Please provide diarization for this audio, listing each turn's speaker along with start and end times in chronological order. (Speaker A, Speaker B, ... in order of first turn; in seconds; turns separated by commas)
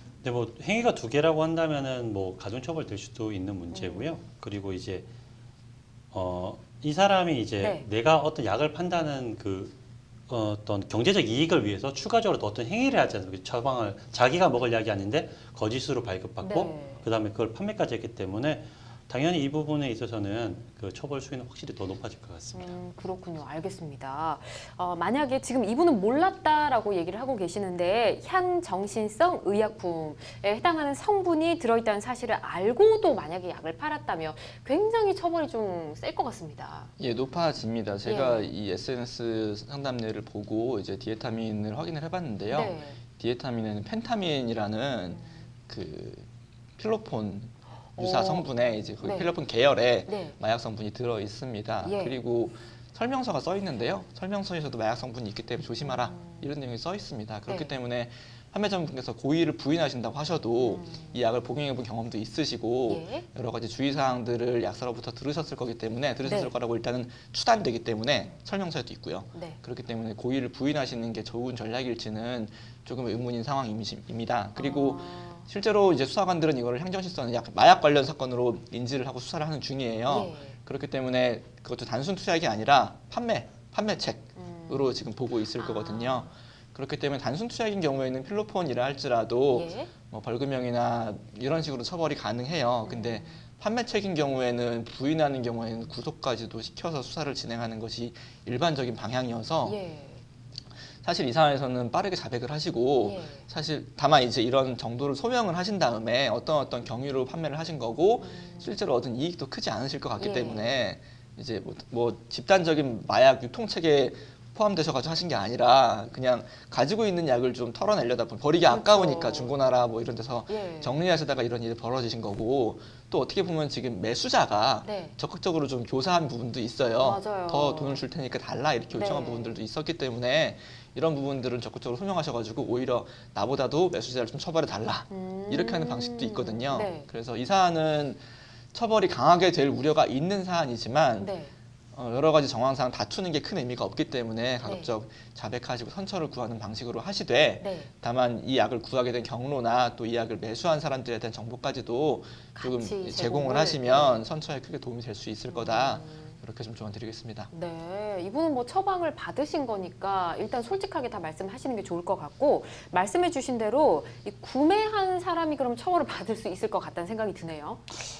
Speaker A: 0.2-5.1, Speaker B: 3.7-4.2, Speaker A: 6.1-9.7, Speaker B: 7.6-7.8, Speaker A: 10.3-22.7, Speaker B: 16.4-17.0, Speaker B: 22.5-36.9, Speaker C: 37.0-99.8, Speaker B: 38.0-38.5, Speaker B: 42.5-43.0, Speaker B: 48.0-49.3, Speaker B: 50.1-50.4, Speaker B: 51.8-52.2, Speaker B: 55.8-56.5, Speaker B: 57.5-57.7, Speaker B: 60.6-61.1, Speaker B: 62.9-63.2, Speaker B: 66.2-66.5, Speaker B: 69.3-69.6, Speaker B: 74.6-75.5, Speaker B: 80.1-80.6, Speaker B: 84.3-84.9, Speaker B: 85.5-86.3, Speaker B: 89.5-89.9, Speaker B: 92.8-93.4, Speaker B: 99.6-100.2, Speaker C: 101.0-141.3, Speaker B: 103.0-103.4, Speaker B: 108.2-108.7, Speaker B: 110.2-110.8, Speaker B: 118.7-119.5, Speaker B: 120.5-121.0, Speaker B: 124.8-125.2, Speaker B: 127.0-128.0, Speaker B: 128.9-129.6, Speaker B: 135.1-137.1, Speaker B: 141.2-141.5, Speaker C: 141.9-157.5, Speaker B: 144.6-144.9, Speaker B: 147.6-147.9, Speaker B: 152.5-154.2, Speaker B: 155.5-156.4, Speaker B: 157.5-168.0